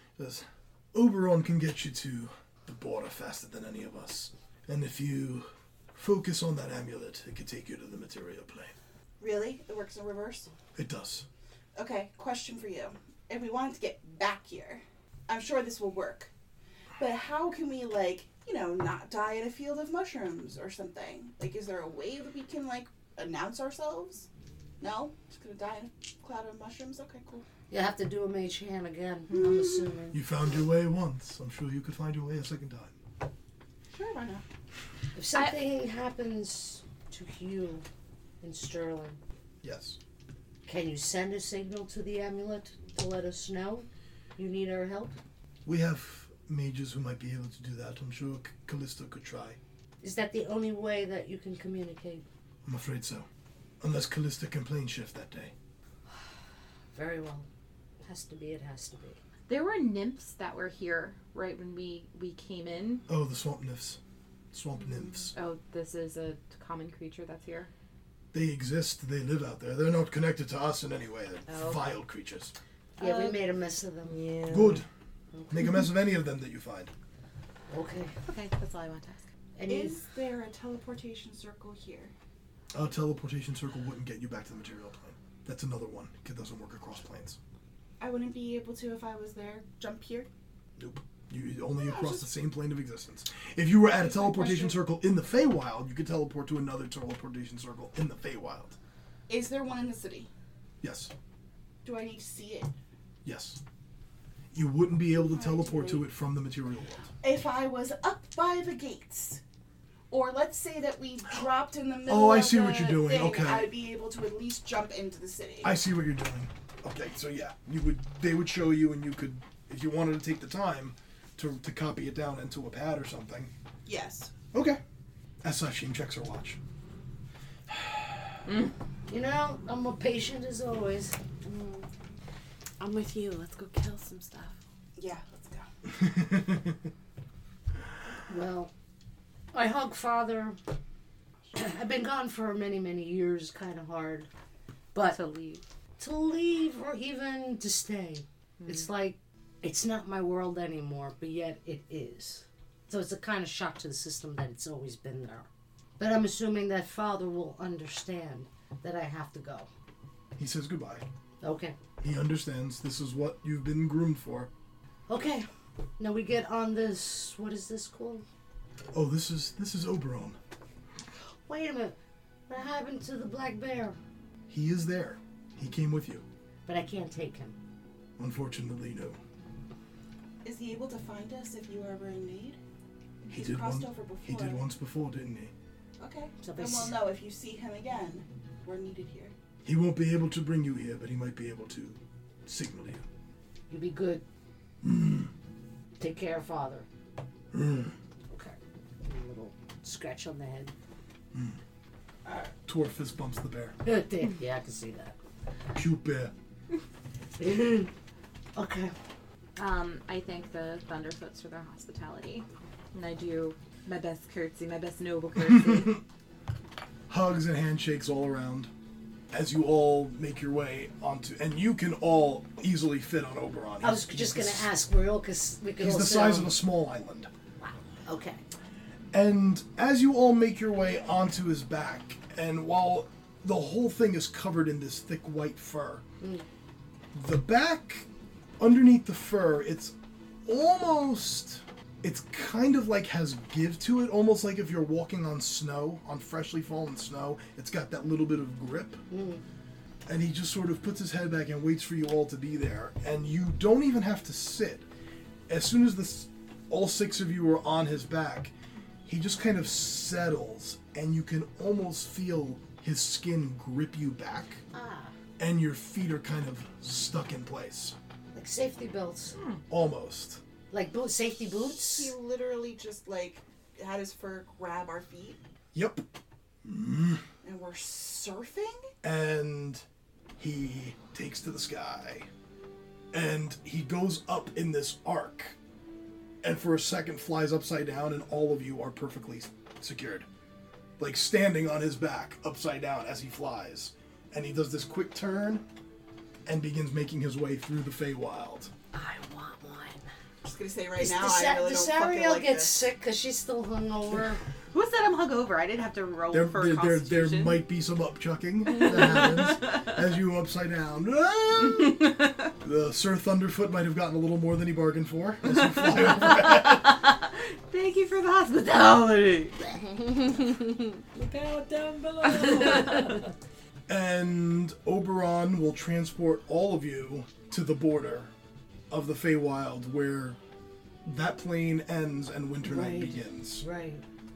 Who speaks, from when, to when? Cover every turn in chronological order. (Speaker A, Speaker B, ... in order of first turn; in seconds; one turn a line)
Speaker A: 0.2-8.7
Speaker B: 9.2-10.5
Speaker A: 10.8-11.3
Speaker B: 11.8-16.3
Speaker B: 17.0-24.3
Speaker B: 24.8-27.4
Speaker C: 27.7-30.2
Speaker B: 29.4-29.8
Speaker A: 30.1-32.9
Speaker B: 33.9-34.5
Speaker C: 35.2-37.9
Speaker C: 38.4-39.2
Speaker A: 39.6-40.0
Speaker C: 40.7-45.2
Speaker A: 45.6-49.6
Speaker C: 50.0-52.2
Speaker A: 52.6-53.3
Speaker A: 53.8-55.5
Speaker C: 56.9-57.5
Speaker C: 58.0-59.2
Speaker D: 59.5-63.0
Speaker A: 63.1-64.0
Speaker A: 64.5-65.3
Speaker D: 65.3-67.7
Speaker A: 68.3-72.5
Speaker D: 71.5-71.9
Speaker C: 73.0-74.2
Speaker B: 73.0-73.4
Speaker D: 74.1-74.8
Speaker A: 74.5-74.9
Speaker C: 75.3-75.7
Speaker A: 75.5-76.9
Speaker C: 77.7-78.2
Speaker D: 78.3-79.2
Speaker C: 79.6-80.0
Speaker B: 79.7-82.1
Speaker A: 82.7-87.4
Speaker B: 88.0-90.3
Speaker A: 90.8-98.8
Speaker B: 91.7-92.3
Speaker B: 93.9-94.8
Speaker B: 99.3-100.3
Speaker A: 100.8-101.1
Speaker B: 101.8-102.7
Speaker A: 103.2-103.6
Speaker A: 104.5-107.1
Speaker B: 105.1-106.0
Speaker B: 107.2-109.4
Speaker B: 110.1-115.8
Speaker A: 112.1-113.7
Speaker A: 115.6-123.5
Speaker B: 123.9-124.3
Speaker A: 124.5-124.8
Speaker A: 125.4-126.6
Speaker A: 127.7-128.3
Speaker D: 128.5-128.7
Speaker C: 129.1-131.2
Speaker E: 131.5-131.9
Speaker E: 132.8-134.6
Speaker B: 135.0-135.7
Speaker A: 135.9-136.8
Speaker C: 138.3-138.7
Speaker C: 139.5-140.6
Speaker C: 141.5-144.3
Speaker C: 144.9-145.2
Speaker D: 145.1-145.6
Speaker C: 146.0-155.5
Speaker C: 156.0-159.7
Speaker A: 160.4-161.1
Speaker C: 161.4-161.8
Speaker A: 162.0-164.5
Speaker C: 165.1-168.2
Speaker A: 168.9-170.4
Speaker C: 171.5-172.0
Speaker C: 172.5-174.0
Speaker A: 174.5-176.2
Speaker C: 176.7-177.6
Speaker A: 178.2-179.2
Speaker B: 180.4-182.6
Speaker B: 183.2-184.6
Speaker A: 183.3-185.5
Speaker B: 186.0-189.3
Speaker C: 186.4-187.0
Speaker A: 189.6-193.0
Speaker C: 193.7-194.2
Speaker A: 194.8-195.3
Speaker C: 196.0-196.9
Speaker A: 197.5-197.9
Speaker C: 198.3-200.7
Speaker A: 201.3-201.6
Speaker A: 202.7-203.8
Speaker C: 203.8-205.2
Speaker A: 205.8-206.3
Speaker C: 207.4-207.9
Speaker C: 208.6-208.9
Speaker D: 209.6-216.0
Speaker A: 215.4-216.0
Speaker A: 217.1-218.7
Speaker A: 219.3-224.7
Speaker C: 223.8-226.6
Speaker A: 225.8-227.3
Speaker C: 227.6-228.4
Speaker A: 229.1-236.0
Speaker A: 237.1-238.1
Speaker A: 238.6-239.9
Speaker A: 240.5-249.0
Speaker C: 249.1-249.4
Speaker A: 250.1-254.9
Speaker A: 255.5-258.5
Speaker A: 259.1-264.6
Speaker E: 264.7-265.1
Speaker A: 265.4-268.0
Speaker C: 268.3-269.4
Speaker D: 269.4-269.6
Speaker A: 269.7-270.4
Speaker C: 270.7-272.1
Speaker B: 271.7-275.4
Speaker A: 275.7-277.2
Speaker B: 277.4-278.9
Speaker A: 279.0-279.8
Speaker A: 280.4-282.3
Speaker A: 283.1-285.6
Speaker A: 286.4-290.3
Speaker A: 291.0-295.6
Speaker A: 296.4-298.7
Speaker C: 299.0-300.0
Speaker B: 300.4-302.8
Speaker C: 301.0-304.4
Speaker D: 304.7-307.6
Speaker A: 306.3-317.0
Speaker D: 308.7-309.9
Speaker D: 311.7-312.4
Speaker D: 315.5-319.8
Speaker F: 321.1-323.3
Speaker D: 322.3-323.1
Speaker A: 323.9-328.3
Speaker A: 328.9-330.4
Speaker A: 331.1-333.6
Speaker C: 332.6-334.0